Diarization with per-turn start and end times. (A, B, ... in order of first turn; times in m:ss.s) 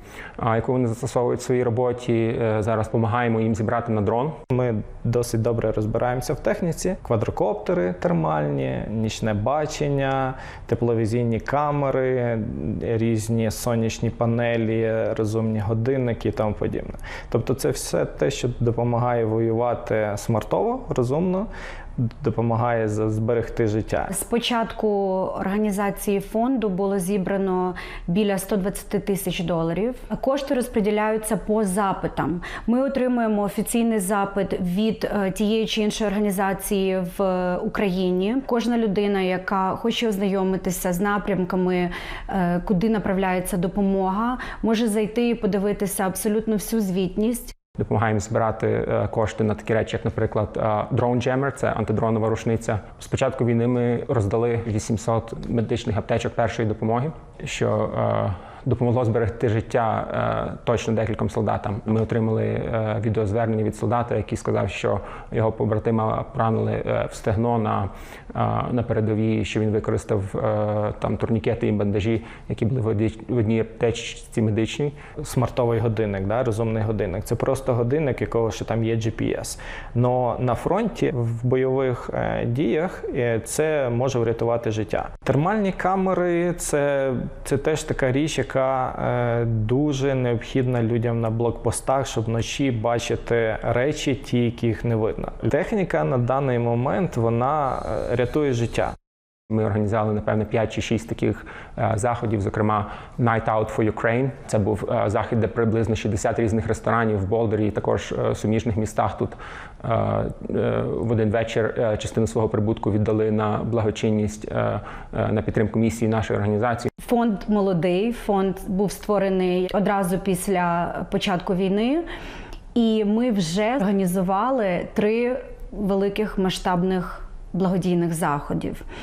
0:00.4-0:04.4 A
0:04.5-0:24.1 B
0:24.1-0:47.5 C
0:47.7-1:15.0 A
1:15.2-1:38.9 B
1:39.5-1:56.9 A
1:57.0-2:02.1 C
2:02.7-2:08.8 C